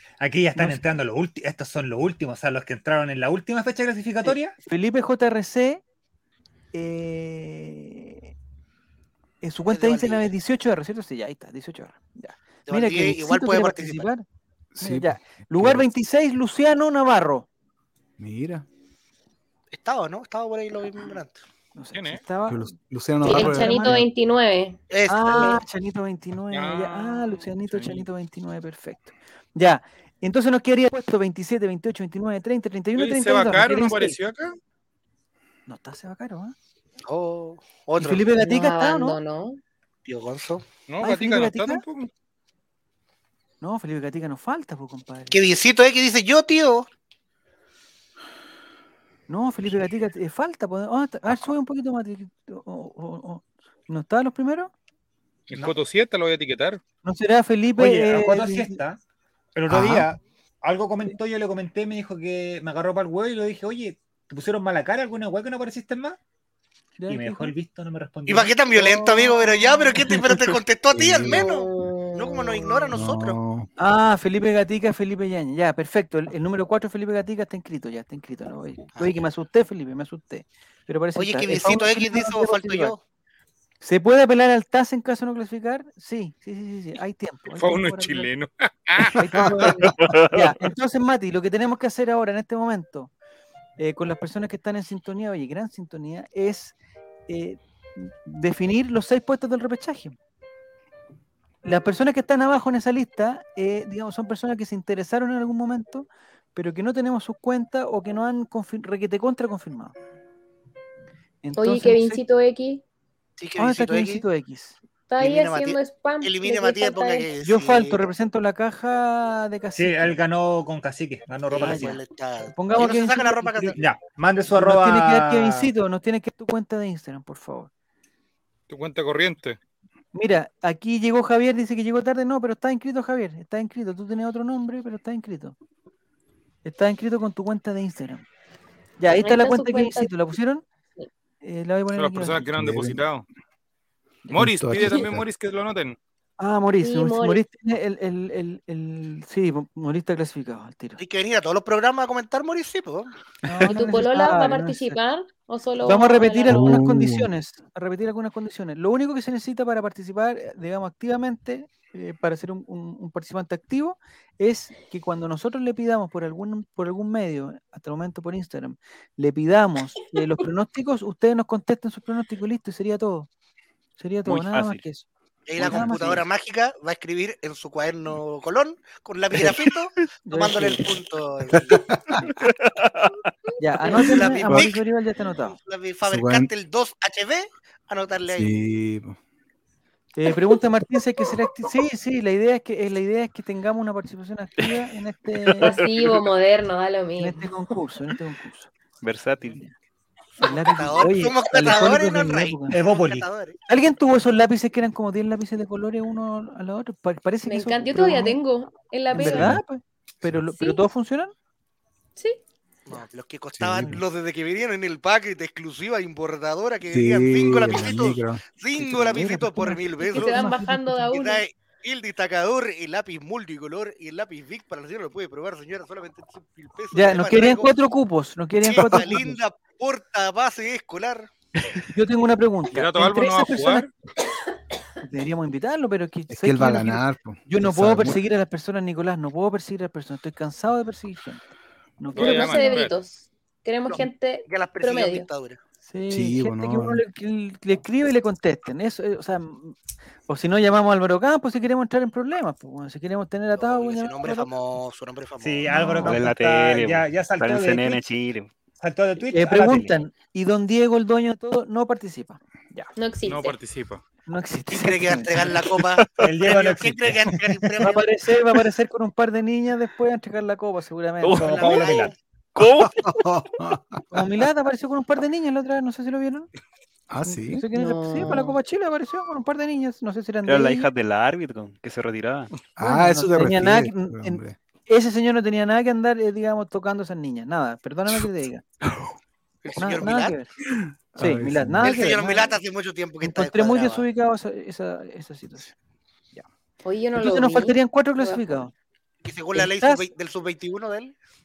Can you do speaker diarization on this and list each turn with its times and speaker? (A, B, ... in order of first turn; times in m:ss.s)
0:00.2-0:04.5 A
0:00.5-0:00.8 B
0:04.2-0:05.8 B
0:06.7-0:08.3 B
0:09.4-0:14.2 B
0:09.7-0:10.3 C
0:12.7-0:14.1 C
0:14.7-0:15.9 D
0:14.8-0:17.5 B
0:18.2-0:18.6 D
0:19.7-0:21.4 C
0:21.7-0:24.0 B
0:21.9-0:22.2 E
0:22.5-0:24.0 D
0:23.2-0:24.8 F
0:24.9-0:25.6 C
0:25.1-0:34.2 B
0:26.5-0:28.0 E
0:33.0-0:34.6 E
0:35.7-0:36.5 B
0:37.0-0:38.3 C
0:38.0-0:39.2 B
0:38.4-0:39.6 F
0:40.0-0:40.6 C
0:40.9-0:42.1 E
0:41.0-0:41.8 B
0:43.6-0:45.4 B
0:45.3-0:46.9 C
0:49.3-0:54.7 B
0:55.5-0:56.8 E
0:57.0-0:58.8 B
0:57.8-0:59.0 A
0:59.5-1:06.2 A
0:59.7-1:00.1 D
1:07.0-1:07.5 B
1:07.1-1:08.6 A
1:08.3-1:13.4 C
1:08.7-1:10.2 B
1:10.9-1:11.5 D
1:11.3-1:12.9 F
1:12.9-1:13.7 D
1:13.8-1:23.0 B
1:19.0-1:19.2 C
1:21.2-1:23.0 C
1:23.8-1:28.3 B
1:27.5-1:29.5 E
1:29.1-1:33.1 B
1:30.0-1:30.5 G
1:33.8-1:36.7 B
1:37.3-1:40.2 B
1:41.6-1:49.9 B
1:51.4-1:52.2 B
1:51.6-1:52.8 F
1:53.4-1:54.2 C
1:53.6-1:54.8 B
1:55.1-1:57.3 F
1:55.2-1:58.1 C
1:57.4-2:00.2 B
1:59.8-2:02.0 A
2:01.5-2:03.8 C
2:01.5-2:03.8 B
2:03.8-2:05.7 A
2:04.5-2:07.7 B
2:08.7-2:09.6 E
2:10.1-2:15.6 B
2:16.6-2:18.2 B
2:19.0-2:20.6 B
2:19.2-2:20.1 F
2:21.4-2:22.6 B
2:21.9-2:23.2 E
2:22.5-2:23.0 D
2:24.3-2:26.0 E
2:24.3-2:25.2 D
2:26.4-2:31.0 B
2:26.8-2:27.4 F
2:31.0-2:33.1 C
2:33.4-2:35.0 B
2:33.7-2:36.8 F
2:35.8-2:53.3 B
2:36.5-2:37.3 D
2:54.0-2:56.2 B
2:54.3-2:54.8 G
2:55.5-3:01.8 C
3:00.2-3:00.9 B
3:01.6-3:02.3 D
3:02.4-3:03.1 G
3:03.6-3:05.6 B
3:03.9-3:04.8 C
3:05.4-3:08.5 C
3:06.1-3:06.5 D
3:08.3-3:09.2 D
3:10.1-3:15.8 B
3:15.6-3:16.2 G
3:15.6-3:17.4 F
3:17.2-3:18.7 B
3:19.0-3:19.6 G
3:19.4-3:19.7 B
3:20.4-3:22.8 B
3:20.4-3:23.6 C
3:22.7-3:23.3 A
3:23.7-3:28.4 B
3:27.4-3:29.6 F
3:29.1-3:31.3 B
3:29.2-3:29.6 D
3:30.6-3:30.8 F
3:32.8-3:40.4 C
3:33.5-3:34.0 D
3:36.9-3:38.4 D
3:38.8-3:41.1 B
3:40.1-3:41.4 F
3:41.1-3:47.7 C
3:46.9-3:49.4 B
3:48.6-3:51.3 C
3:51.9-3:53.9 B
3:52.7-3:53.9 E
3:55.0-4:02.8 B
3:56.3-3:58.2 D
4:02.1-4:02.9 E
4:02.2-4:05.3 F
4:03.9-4:05.6 C
4:05.8-4:09.8 B
4:06.1-4:07.0 D
4:10.3-4:14.5 B
4:13.6-4:15.7 C
4:15.4-4:18.0 A
4:15.7-4:16.2 B
4:16.0-4:18.5 G
4:18.7-4:20.0 A
4:19.3-4:22.9 B
4:23.0-4:23.6 F
4:23.2-4:24.0 E
4:24.3-4:25.6 B
4:24.7-4:28.0 C
4:25.8-4:26.3 G
4:26.2-4:27.4 A
4:27.8-4:31.6 B
4:31.2-4:32.0 G
4:31.4-4:32.1 A
4:31.4-4:32.1 C
4:32.5-4:33.3 G
4:32.6-4:33.8 D
4:34.1-4:36.5 B
4:37.1-4:37.6 D
4:37.2-4:40.9 B
4:37.7-4:38.6 F
4:40.4-4:42.5 G
4:42.7-4:44.6 D
4:42.8-4:48.6 B
4:49.6-4:50.4 C
4:49.8-4:50.5 B
4:51.1-4:51.9 D
4:51.2-4:52.6 B
4:51.8-4:54.1 C
4:53.2-4:55.7 B
4:56.8-4:58.4 F
4:57.2-4:58.7 B
4:59.2-5:01.2 C
4:59.5-5:00.1 B